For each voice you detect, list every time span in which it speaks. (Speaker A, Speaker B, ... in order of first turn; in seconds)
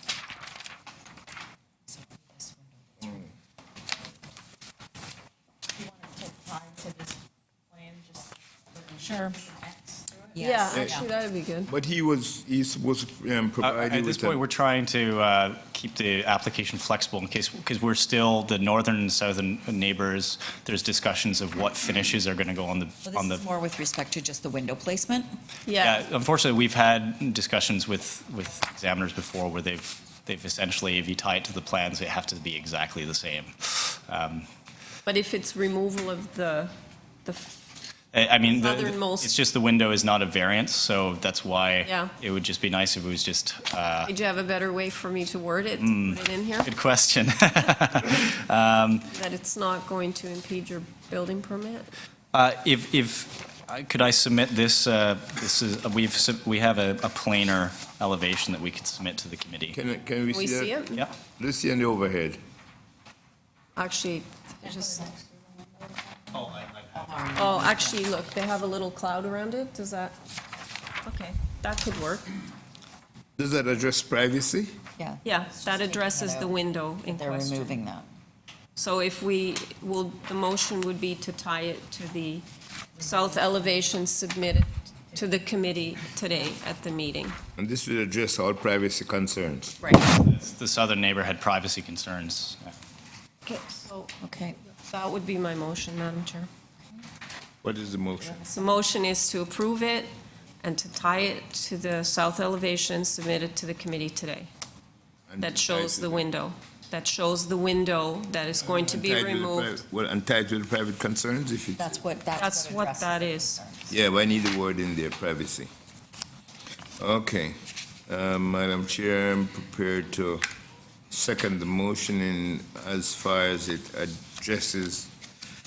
Speaker A: 1.9-3.3, 5.8-7.1, 7.9-8.3, 8.8-11.0, 23.1-25.3, 66.9-68.0, 75.0-76.5, 77.1-78.1, 94.2-94.6, 98.2-98.6, 111.8-114.0
Speaker B: 10.4-11.7, 25.6-26.0, 35.0-36.7, 37.2-37.6, 38.4-39.3, 41.8-42.1, 44.1-46.7, 49.1-51.9, 60.3-61.0, 63.8-65.2, 67.3-70.2, 71.0-72.3, 75.2-77.8, 78.8-82.5, 83.0-87.4, 89.8-90.1, 93.5-94.1, 94.8-96.5, 98.5-100.1, 100.6-104.5, 105.4-109.7, 112.4-113.6
Speaker C: 10.7-11.0, 11.7-14.4, 59.7-62.4, 73.4-74.8, 87.6-89.9, 97.6-98.5, 105.3-106.3, 108.8-112.0, 113.9-115.7, 117.0-120.5, 121.1-125.1
Speaker D: 13.6-23.4, 25.8-34.5, 38.1-44.1, 45.8-49.1, 52.3-59.8, 66.4-66.7, 90.1-92.7